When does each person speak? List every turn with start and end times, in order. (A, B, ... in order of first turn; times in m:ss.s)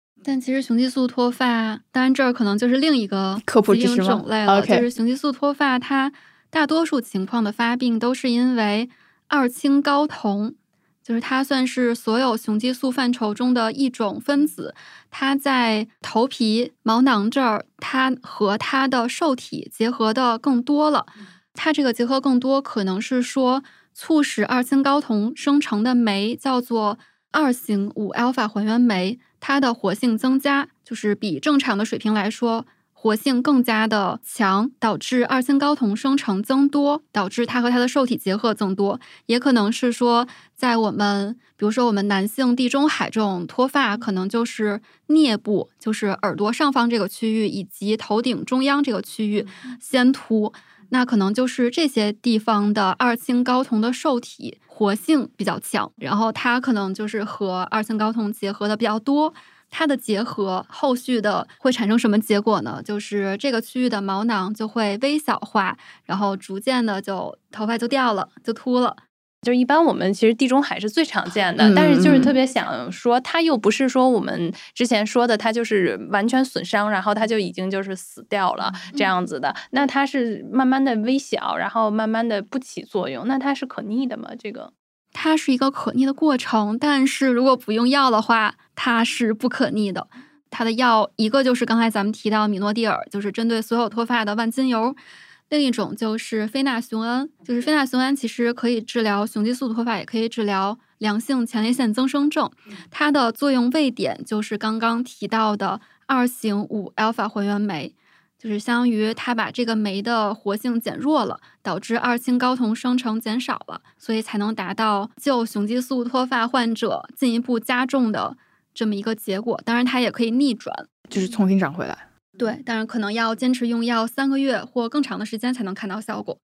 0:00.2-1:09.0 A
0:03.4-0:04.9 B
1:09.4-1:24.7 C
1:11.6-1:12.4 B
1:25.1-1:35.0 A
1:35.5-2:00.8 A
2:01.1-2:02.0 B
2:02.4-2:06.4 A